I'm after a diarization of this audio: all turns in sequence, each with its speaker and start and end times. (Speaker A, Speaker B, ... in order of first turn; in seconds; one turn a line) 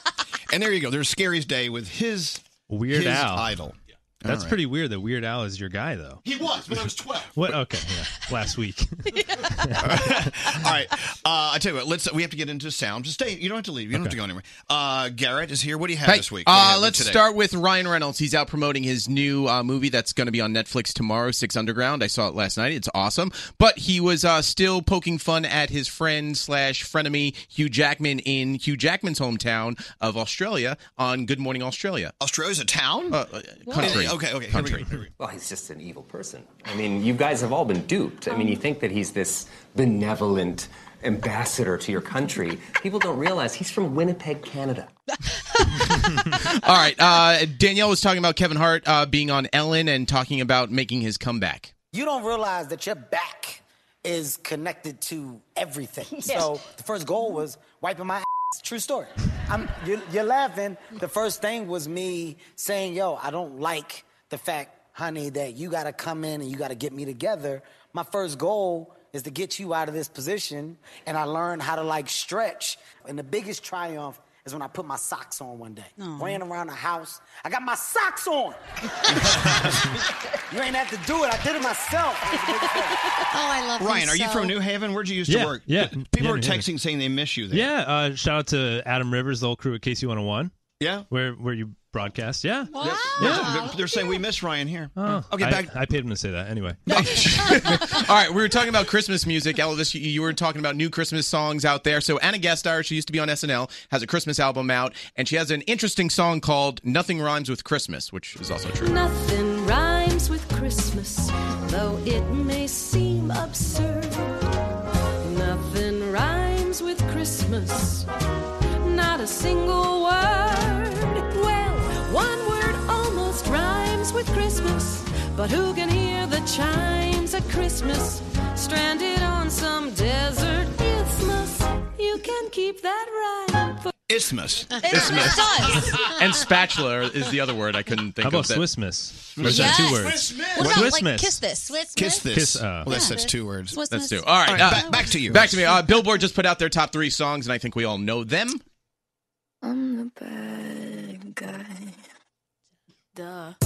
Speaker A: 0.5-4.6
Speaker B: 2.7-3.5
Speaker B: 4.2-6.2
Speaker C: 6.2-7.4
Speaker B: 7.3-10.3
Speaker A: 9.8-17.3
Speaker B: 13.9-14.2
Speaker D: 16.0-32.1
Speaker A: 32.2-33.2
Speaker D: 33.1-34.9
Speaker A: 33.7-35.1
Speaker E: 35.2-44.9
Speaker D: 46.5-51.7
Speaker F: 51.9-78.6
Speaker G: 76.0-76.3
Speaker F: 80.5-83.0
Speaker H: 83.2-84.6
Speaker A: 83.8-87.7
Speaker B: 85.2-86.7
Speaker B: 87.5-90.5
Speaker A: 90.8-91.1
Speaker B: 91.1-93.5
Speaker H: 92.7-94.2
Speaker A: 92.8-95.9
Speaker B: 94.9-97.7
Speaker A: 96.9-98.0
Speaker D: 98.0-109.0
Speaker I: 108.8-114.5
Speaker I: 115.2-118.1
Speaker I: 118.8-133.9
Speaker A: 134.1-135.4
Speaker H: 134.8-135.6
Speaker I: 134.9-135.7
Speaker G: 135.4-135.7
Speaker D: 136.0-138.8
Speaker B: 138.2-141.4
Speaker A: 139.4-139.7
Speaker G: 139.4-141.8
Speaker C: 139.9-140.7
Speaker A: 140.6-140.9
Speaker H: 141.6-142.3
Speaker A: 141.9-143.8
Speaker B: 142.3-142.9
Speaker H: 142.9-143.2
Speaker G: 143.7-144.2
Speaker D: 143.8-148.6
Speaker A: 144.4-145.7